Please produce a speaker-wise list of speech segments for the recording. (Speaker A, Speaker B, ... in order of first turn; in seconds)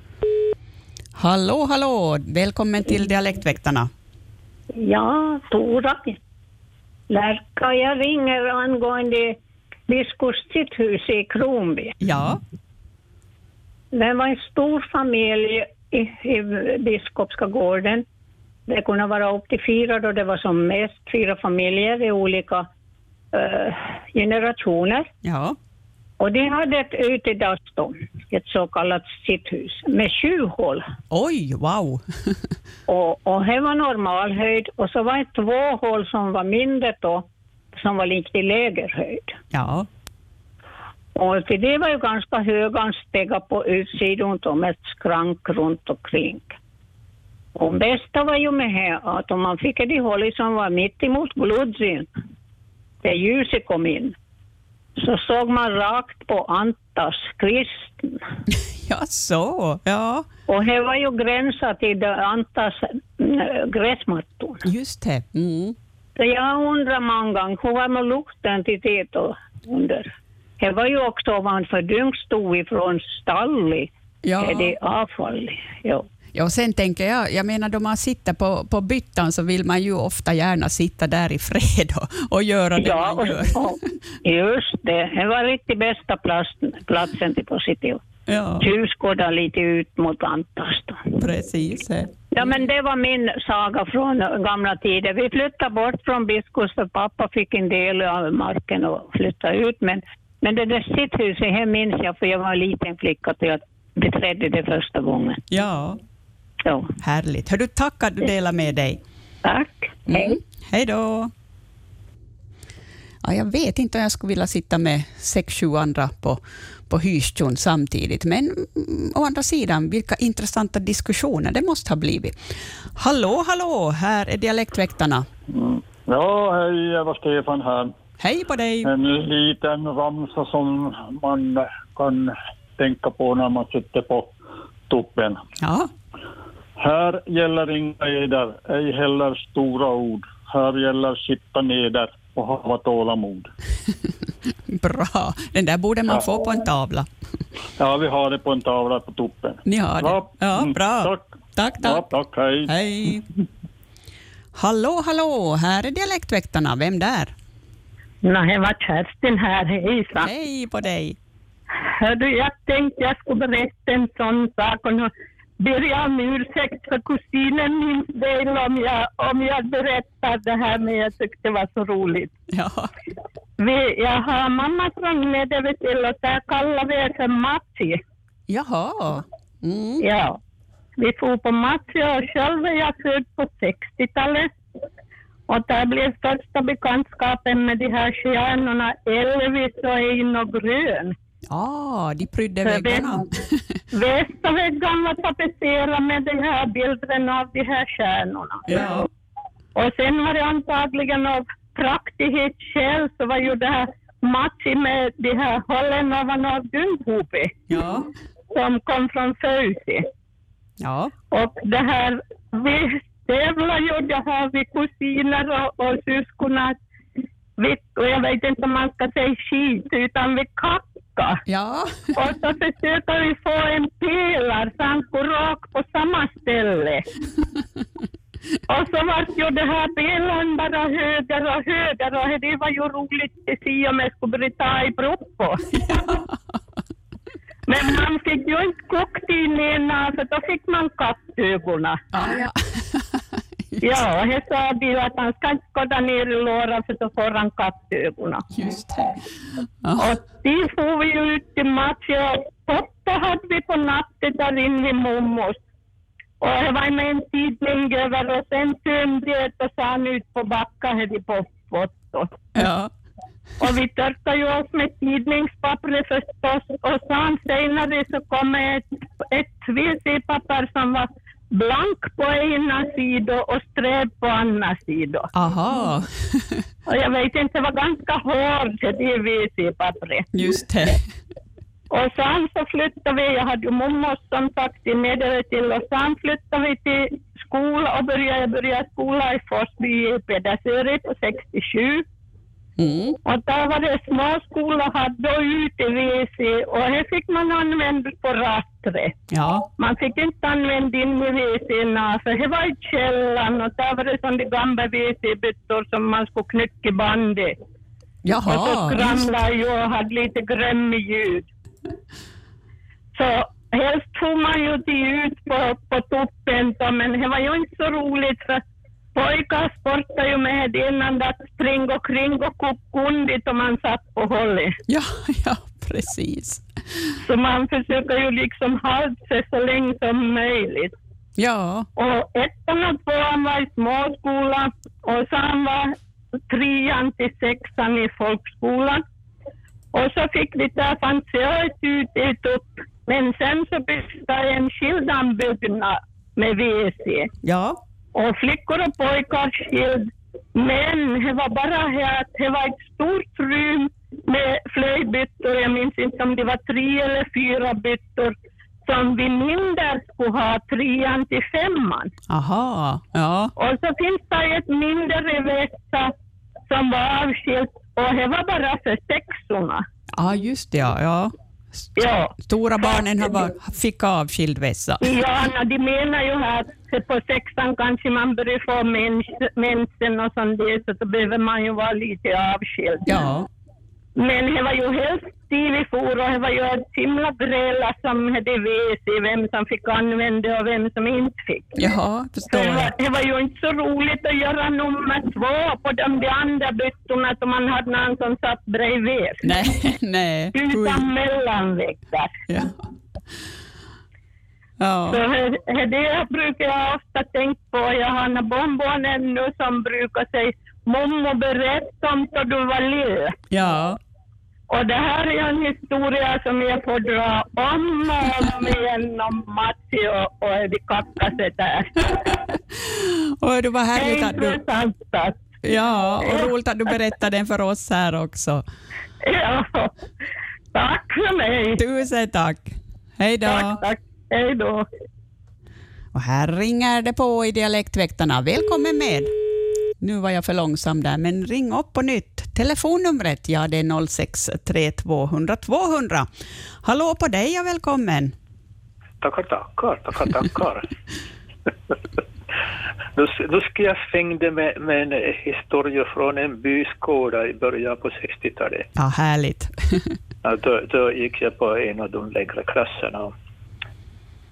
Speaker A: 1.1-3.9, 12.0-12.4, 25.2-25.6, 31.1-32.0, 39.5-39.9, 58.8-60.3, 64.6-65.7, 74.2-74.7, 76.3-83.6, 88.3-88.7, 91.2-92.1, 105.5-106.0, 107.0-109.0, 110.1-111.3, 113.2-122.4, 123.0-125.2, 128.2-128.9, 135.6-135.9, 144.7-147.1, 149.7-152.1, 152.7-153.2, 154.6-157.3, 160.2-161.2, 172.5-172.9, 178.5-180.0, 191.5-193.6, 198.7-199.1, 207.7-208.1, 210.8-211.1, 221.5-222.1, 235.9-236.3, 242.1-244.0, 248.5-249.2, 249.8-250.1, 262.6-262.9, 275.3-276.6, 280.3-281.0, 292.8-293.2, 299.3-299.6, 308.2-309.3, 324.9-326.6, 331.4-331.9, 347.4-347.8, 362.3-363.5, 370.2-375.0, 383.1-383.5, 391.8-392.9, 399.4-401.1, 402.5-402.8, 404.8-405.2, 413.5-414.0, 422.8-424.6, 425.6-428.6, 431.8-433.8, 436.1-439.3, 440.0-446.3, 446.8-448.3, 459.0-459.7
Speaker B: 4.7-6.2, 7.1-9.4, 9.9-11.9, 13.9-18.0, 18.7-22.7, 23.3-25.1, 26.2-30.9, 32.9-39.4, 41.1-46.5, 47.5-52.1, 53.0-54.1, 55.0-58.2, 60.5-64.6, 66.2-76.0, 82.8-88.0, 88.6-91.0, 92.3-105.4, 106.6-106.9, 109.4-110.4
Speaker C: 125.5-127.9, 128.8-134.3, 134.9-135.4, 136.8-143.5, 147.8-152.7
Speaker D: 158.2-160.3, 161.8-172.3, 173.6-178.0, 180.0-180.4, 181.0-184.5, 185.5-191.1, 192.6-193.1, 193.9-199.1, 199.8-207.5, 208.5-210.1, 211.3-216.8, 217.6-221.4, 222.1-227.0, 228.7-235.6, 237.7-242.0, 243.8-248.4, 250.0-255.6, 256.4-262.4, 263.6-275.3, 276.9-280.3, 281.9-292.0, 293.2-299.1, 299.8-307.6, 308.5-311.4, 313.1-318.6, 319.1-324.7, 327.2-330.9, 331.9-335.9, 336.5-339.0, 339.9-347.3, 348.1-362.1, 363.6-366.1, 366.7-369.8, 372.0-373.3, 375.0-383.2, 384.1-391.8, 392.5-399.5, 400.5-402.4, 405.1-413.3, 414.7-422.1, 423.9-425.6, 426.2-426.5, 429.2-429.9, 430.7-431.8, 433.4-434.9
Speaker E: 449.2-450.9, 453.1-458.9, 460.4-463.3